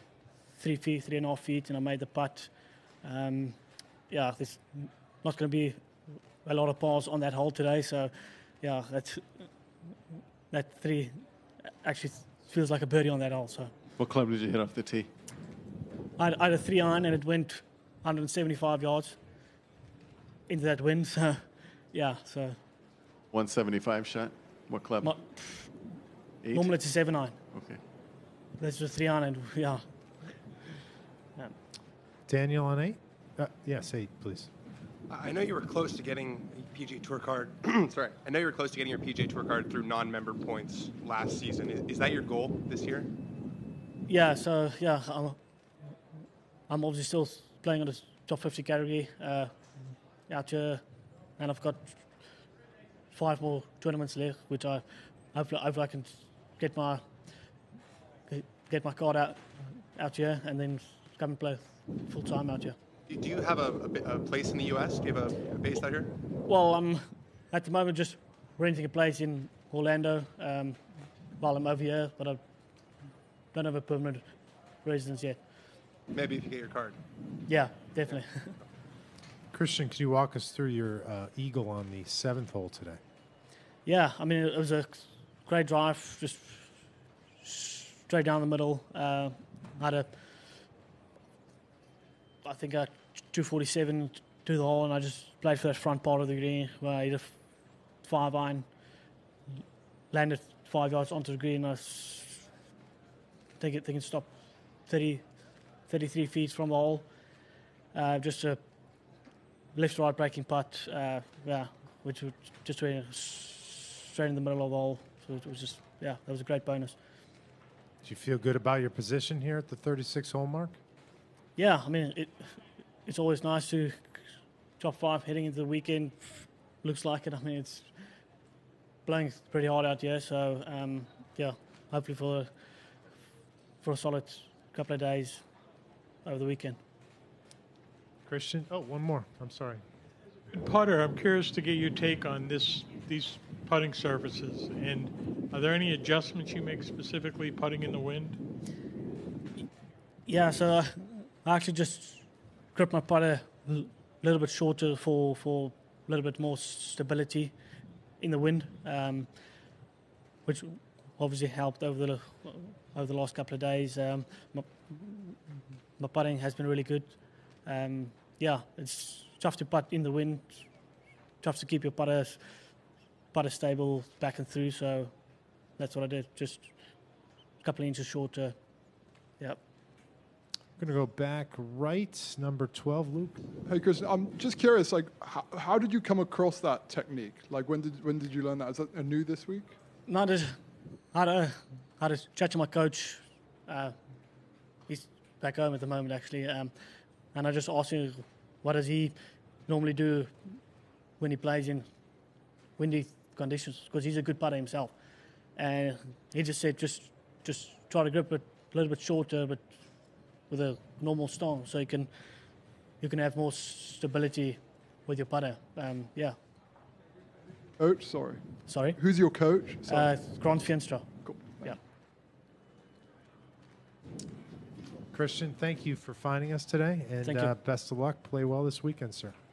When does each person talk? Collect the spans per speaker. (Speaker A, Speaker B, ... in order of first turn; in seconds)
Speaker A: 0.5-9.5, 10.5-13.7, 16.2-19.2, 20.5-22.6, 25.0-27.4, 28.6-29.9, 44.1-45.4, 46.7-50.8, 51.4-52.2, 53.1-57.0, 58.3-62.8, 66.5-72.4, 73.5-75.4, 77.5-78.6, 83.8-86.8, 87.4-90.2, 92.4-98.7, 100.1-102.5, 103.6-107.1, 107.9-108.6, 109.7-117.0, 121.6-124.3, 124.8-128.0, 129.1-132.5, 133.8-135.5, 136.2-136.8, 150.3-157.5, 158.2-159.3, 160.4-165.4, 166.0-170.7, 171.4-172.5, 173.3-175.2, 175.8-176.8, 177.6-178.6, 190.1-190.6, 191.1-194.0, 194.9-196.7, 197.3-200.6, 201.2-201.9, 202.8-205.0, 205.6-209.7, 210.5-212.1, 213.0-216.4, 218.7-221.8, 227.2-227.5
Speaker B: 14.0-15.1, 23.3-25.6, 26.4-27.8
Speaker C: 32.3-34.5, 79.5-83.0, 118.0-120.8, 138.3-139.8, 180.8-183.4, 225.1-229.3
Speaker D: 35.1-43.1, 63.1-66.1, 76.1-77.0
Speaker E: 140.5-148.4
Speaker F: 183.7-189.8, 217.8-221.7